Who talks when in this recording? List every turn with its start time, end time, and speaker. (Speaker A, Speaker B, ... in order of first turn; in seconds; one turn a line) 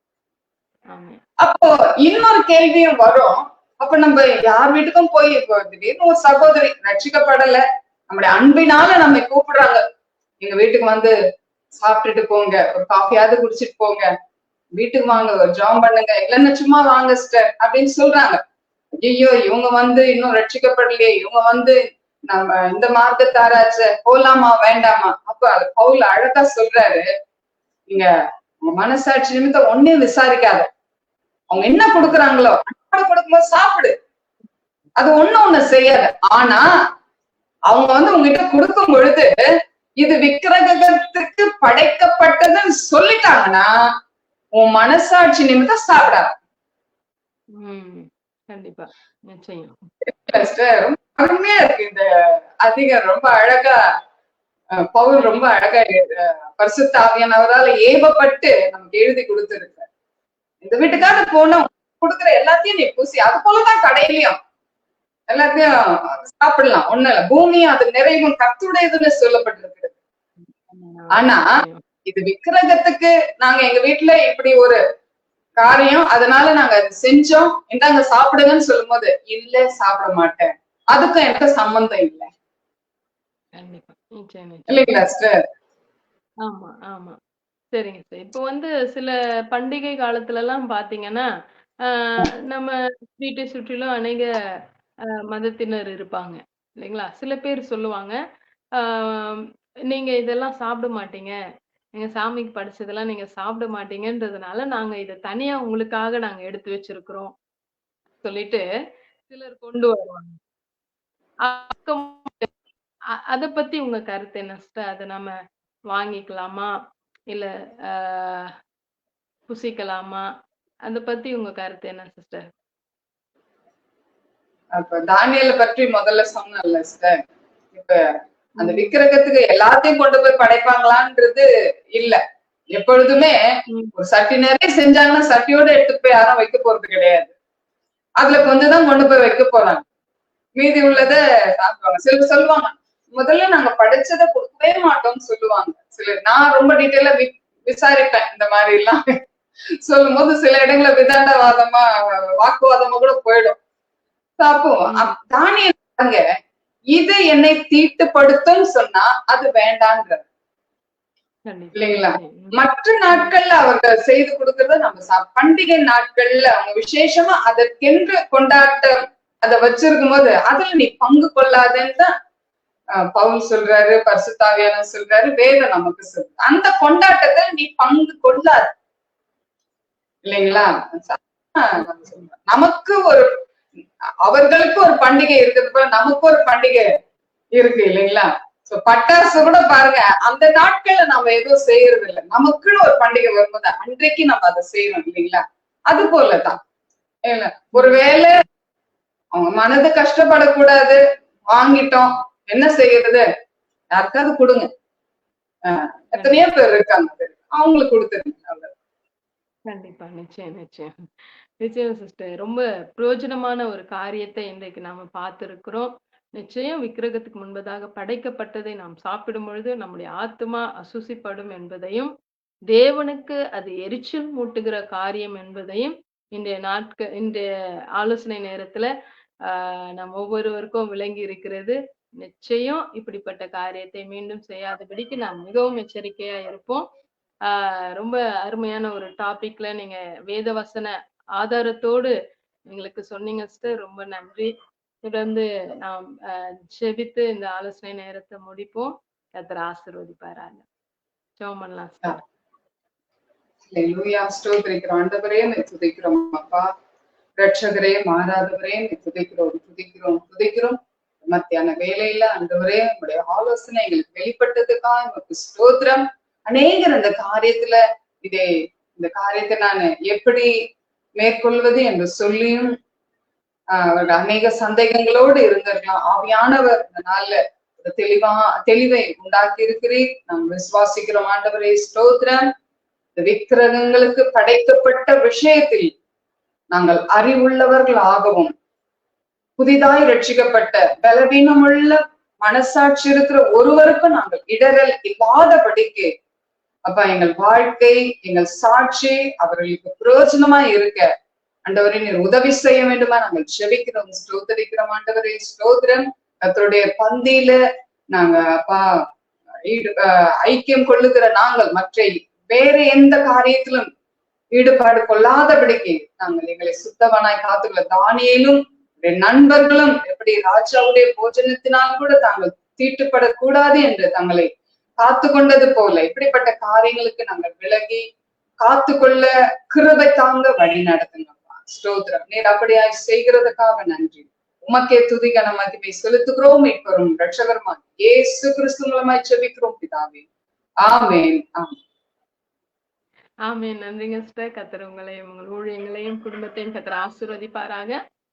Speaker A: 0.9-1.2
Speaker B: 1.4-9.8
Speaker B: 10.4-11.1
Speaker B: 11.7-14.1
Speaker B: 14.8-18.4
Speaker A: 15.1-15.4
Speaker B: 19.0-21.8
Speaker B: 22.3-27.1
Speaker B: 28.7-30.7
Speaker B: 31.5-34.0
Speaker B: 35.0-36.7
Speaker B: 37.7-39.3
Speaker B: 40.0-43.7
Speaker B: 44.6-46.3
Speaker A: 47.6-49.8
Speaker B: 50.1-52.1
Speaker B: 52.6-53.8
Speaker B: 55.0-59.9
Speaker A: 55.2-55.5
Speaker B: 60.6-64.4
Speaker A: 60.9-61.3
Speaker B: 65.3-69.9
Speaker A: 70.5-71.8
Speaker B: 71.2-71.4
Speaker B: 72.1-74.8
Speaker B: 75.6-82.3
Speaker A: 83.6-84.9
Speaker B: 84.7-85.3
Speaker A: 86.4-87.2
Speaker A: 87.7-91.3
Speaker A: 91.9-94.4
Speaker A: 95.3-98.2
Speaker A: 98.8-101.3
Speaker A: 102.0-107.3
Speaker A: 108.2-108.6
Speaker A: 109.3-110.4
Speaker A: 111.4-112.5
Speaker A: 113.3-115.3
Speaker A: 115.9-116.7
Speaker A: 117.3-118.5
Speaker A: 119.5-120.3
Speaker A: 120.9-122.5
Speaker B: 124.8-127.2
Speaker B: 127.7-128.0
Speaker A: 128.6-129.0
Speaker B: 128.6-132.2
Speaker B: 132.7-133.3
Speaker B: 134.0-137.3
Speaker B: 138.2-139.8
Speaker B: 140.6-149.0
Speaker A: 140.9-141.2
Speaker B: 149.9-151.8
Speaker B: 152.4-153.6
Speaker B: 154.4-156.2
Speaker B: 156.9-160.2
Speaker A: 161.5-162.5
Speaker B: 161.8-172.1
Speaker A: 163.1-163.4
Speaker B: 173.1-178.7
Speaker B: 180.3-183.3
Speaker B: 184.3-186.9
Speaker B: 187.6-196.6
Speaker B: 197.3-198.4
Speaker A: 197.8-198.1
Speaker B: 199.4-201.0
Speaker B: 201.5-203.2
Speaker B: 203.9-204.7
Speaker B: 205.7-208.7
Speaker A: 206.2-206.5
Speaker A: 209.7-210.9
Speaker A: 211.6-222.1
Speaker A: 222.7-228.9
Speaker A: 229.5-236.9
Speaker A: 237.5-242.1
Speaker A: 242.7-244.5
Speaker A: 245.1-250.6
Speaker A: 251.4-252.2
Speaker B: 253.7-256.7
Speaker B: 257.4-270.5
Speaker B: 271.2-272.7
Speaker B: 273.7-282.5
Speaker B: 283.2-285.9
Speaker B: 286.7-288.5
Speaker B: 289.6-296.1
Speaker B: 296.9-301.1
Speaker B: 301.7-307.6
Speaker B: 308.1-308.8
Speaker B: 309.7-313.9
Speaker B: 314.6-324.5
Speaker B: 325.0-328.0
Speaker B: 328.6-340.2
Speaker B: 340.9-341.7
Speaker A: 343.5-348.0